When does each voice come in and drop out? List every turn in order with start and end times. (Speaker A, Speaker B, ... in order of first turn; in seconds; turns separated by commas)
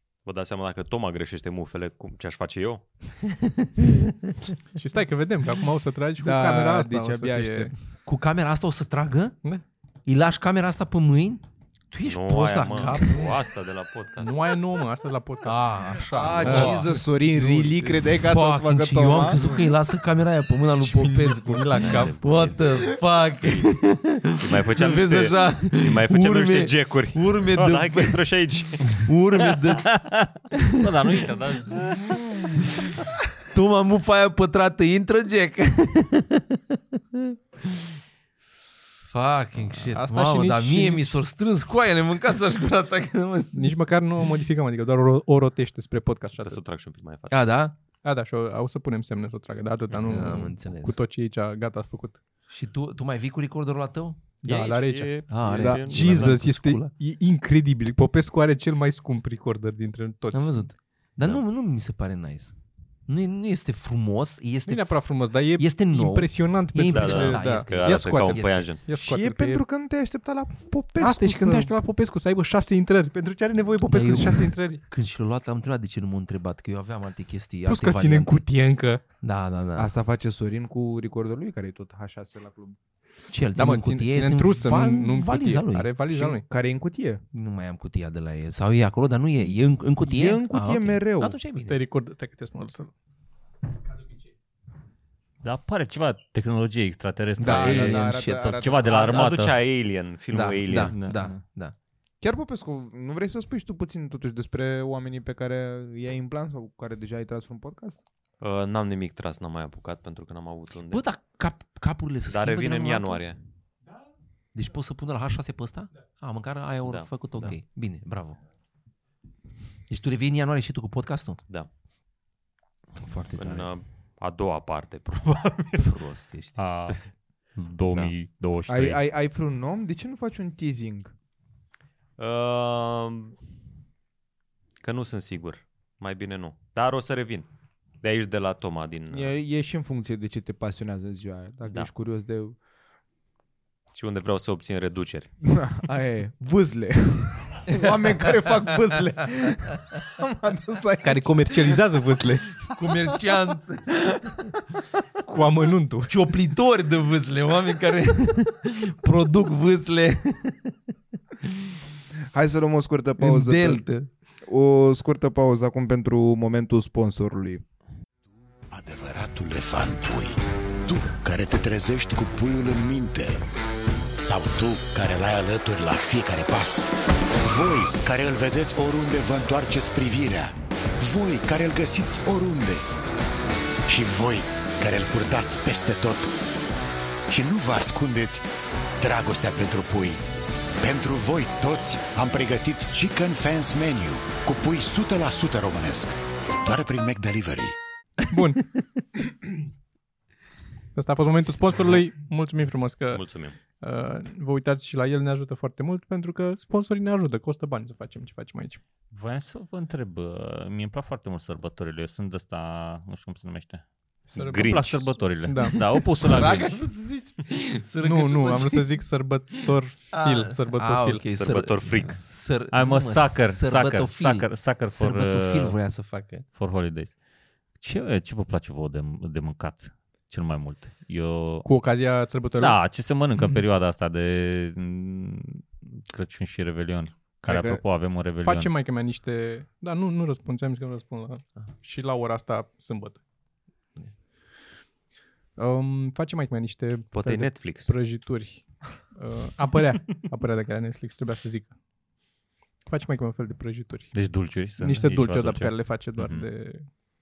Speaker A: 0.2-2.9, Speaker B: 3.3-4.5, Speaker C: 4.7-7.7, Speaker D: 6.2-7.7, Speaker B: 8.1-9.4, Speaker B: 10.1-13.3, Speaker A: 12.0-14.5, Speaker C: 14.2-18.1, Speaker B: 15.4-16.9, Speaker D: 16.1-19.5, Speaker A: 16.4-16.7, Speaker B: 18.1-28.2, Speaker C: 19.3-19.7, Speaker C: 20.8-22.3, Speaker A: 21.8-23.7, Speaker A: 24.3-29.1, Speaker B: 28.8-30.0, Speaker E: 29.5-32.6, Speaker B: 30.5-31.3, Speaker B: 32.0-38.0, Speaker B: 39.1-43.7, Speaker C: 39.9-41.2, Speaker C: 43.5-46.6, Speaker A: 46.4-47.4, Speaker B: 47.3-47.8, Speaker C: 48.0-52.2, Speaker A: 49.9-50.4, Speaker B: 50.0-51.0, Speaker B: 52.5-54.2, Speaker C: 54.4-60.6, Speaker A: 54.5-56.4, Speaker B: 55.3-56.9, Speaker D: 55.6-55.9, Speaker B: 60.3-62.5, Speaker B: 63.1-68.7, Speaker C: 64.7-69.6, Speaker A: 66.9-68.8, Speaker D: 68.9-71.7, Speaker C: 71.0-74.8, Speaker B: 73.8-78.4, Speaker C: 77.7-79.0, Speaker B: 79.2-79.9, Speaker D: 79.8-82.8, Speaker B: 83.3-85.9, Speaker C: 83.6-86.5, Speaker D: 86.1-87.2, Speaker B: 87.3-91.8, Speaker D: 90.0-91.4, Speaker C: 91.5-92.9, Speaker C: 93.9-94.3, Speaker E: 95.4-99.6, Speaker B: 97.4-98.6, Speaker D: 97.4-99.3, Speaker A: 98.9-101.0, Speaker B: 100.3-101.8, Speaker E: 100.9-101.4, Speaker D: 102.2-108.0, Speaker A: 108.4-111.0, Speaker B: 110.9-113.2, Speaker A: 112.3-113.4, Speaker B: 114.5-118.4, Speaker A: 116.8-117.1, Speaker B: 119.9-121.4, Speaker B: 123.0-123.7, Speaker A: 123.3-126.0, Speaker B: 125.7-126.7, Speaker E: 126.6-127.0, Speaker E: 127.5-129.0, Speaker D: 128.7-131.1, Speaker A: 132.2-133.4, Speaker A: 134.8-137.5, Speaker A: 138.0-139.3, Speaker D: 139.1-142.6, Speaker A: 143.9-145.3, Speaker D: 145.4-151.8, Speaker B: 147.7-148.7, Speaker C: 151.0-152.5, Speaker B: 152.6-154.6, Speaker C: 155.3-156.2, Speaker B: 156.1-160.8, Speaker D: 162.3-163.9, Speaker B: 163.2-164.1, Speaker D: 164.4-167.6, Speaker F: 168.7-173.4, Speaker F: 174.2-176.9, Speaker F: 177.4-182.8, Speaker F: 183.9-186.3, Speaker F: 187.3-190.2, Speaker F: 190.8-197.8, Speaker C: 198.2-198.7, Speaker C: 200.9-203.2, Speaker A: 203.1-203.6, Speaker C: 203.8-208.8, Speaker E: 209.1-213.8, Speaker C: 214.3-214.8, Speaker A: 214.4-215.3, Speaker E: 214.4-216.8, Speaker C: 215.4-215.8, Speaker B: 215.8-218.9, Speaker C: 218.0-221.2, Speaker B: 220.1-226.5, Speaker A: 221.3-222.2, Speaker E: 222.6-225.8, Speaker E: 226.6-227.2, Speaker E: 227.8-231.7, Speaker C: 231.6-232.8, Speaker E: 232.6-238.7, Speaker D: 237.4-237.8, Speaker C: 238.4-243.2, Speaker C: 245.6-251.8, Speaker A: 247.1-247.9, Speaker C: 252.9-254.2, Speaker E: 254.1-256.5, Speaker C: 254.8-256.9